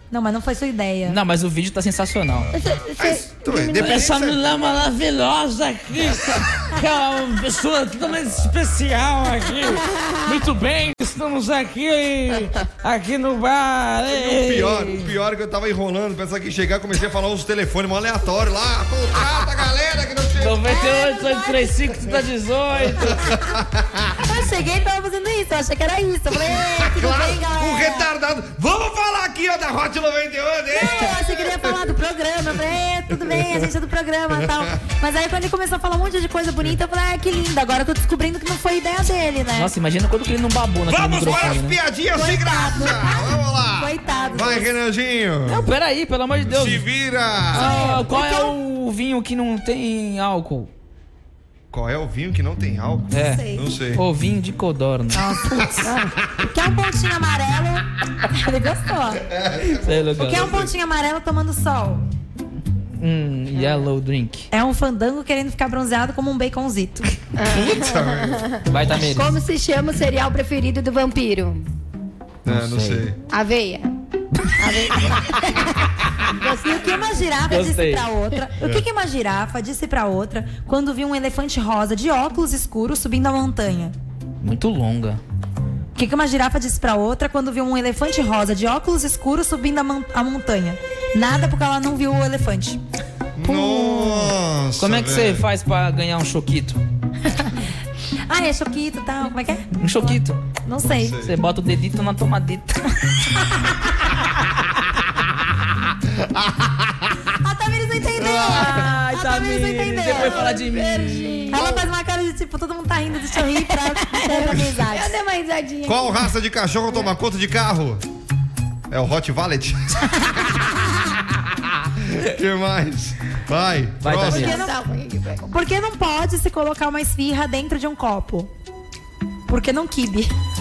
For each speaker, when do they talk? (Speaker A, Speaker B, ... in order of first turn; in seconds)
Speaker A: 0.1-1.2, 20.7-21.8, 24.2-28.1, 30.7-39.7, 42.1-44.7, 47.5-48.5, 55.1-55.9, 56.5-59.2, 60.2-62.0, 64.5-67.1, 76.6-83.9, 85.9-92.8, 93.5-94.3, 97.3-97.5, 98.3-101.2, 107.4-110.7, 111.5-115.1, 124.3-124.7, 125.5-128.5, 129.5-130.3
Speaker B: 1.1-2.5, 3.7-5.5, 6.8-7.5, 10.2-10.8, 13.1-15.1, 20.4-23.2, 39.5-41.8, 45.5-46.8, 47.5-50.7, 53.1-55.2, 59.6-60.7, 63.0-64.5, 68.7-69.3, 72.5-73.0, 77.5-78.0, 84.4-85.2, 94.8-96.8, 99.8-100.4, 101.2-102.9, 108.6-111.6, 124.0-124.5
Speaker C: 2.5-4.0, 55.8-56.1, 67.3-71.7, 73.3-73.9, 74.6-77.2, 110.1-111.9, 114.0-116.2, 124.3-125.5
Speaker D: 3.0-4.5, 14.1-20.8, 22.8-24.2, 26.3-31.8, 33.1-33.7, 34.3-34.8, 40.9-45.6, 46.4-47.7, 51.7-54.0, 55.4-56.4, 59.3-60.4, 67.4-68.5, 72.4-73.2, 78.6-78.8, 93.3-95.4, 101.0-101.3, 106.1-107.1, 108.2-108.9, 115.8-118.0, 118.9-120.1, 122.1-124.6
Speaker E: 4.9-9.8, 10.3-13.8